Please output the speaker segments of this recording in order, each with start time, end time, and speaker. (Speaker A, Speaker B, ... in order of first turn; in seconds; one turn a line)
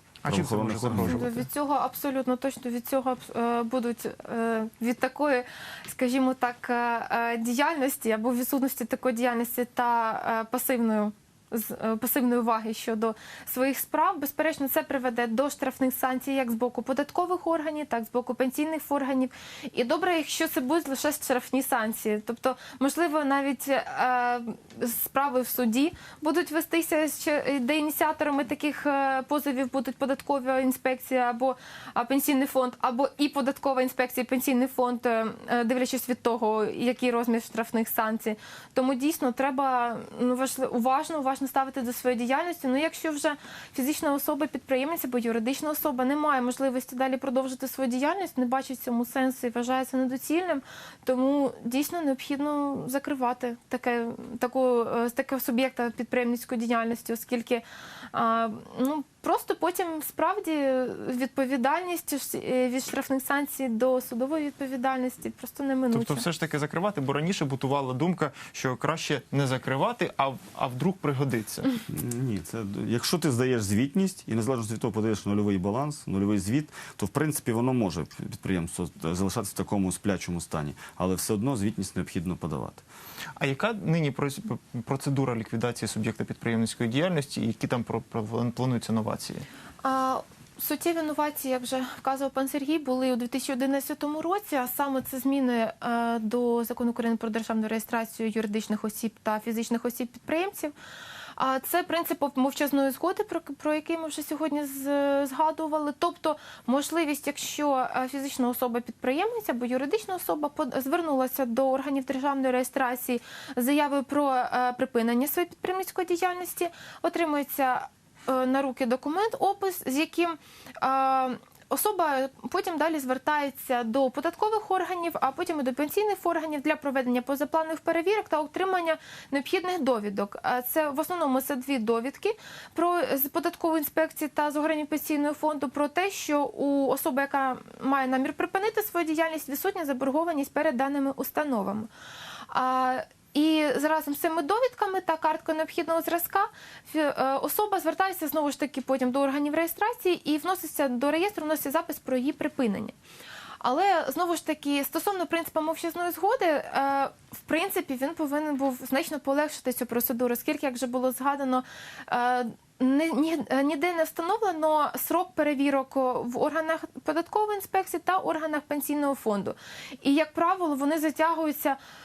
Speaker A: 0.2-1.4
Speaker B: 0.3-1.2
Speaker C: 1.0-66.2
Speaker A: 65.9-71.7
Speaker B: 71.9-82.8
Speaker A: 83.4-89.5
Speaker C: 89.8-100.7
Speaker C: 101.4-141.9
Speaker C: 142.5-152.9
Speaker C: 153.6-171.8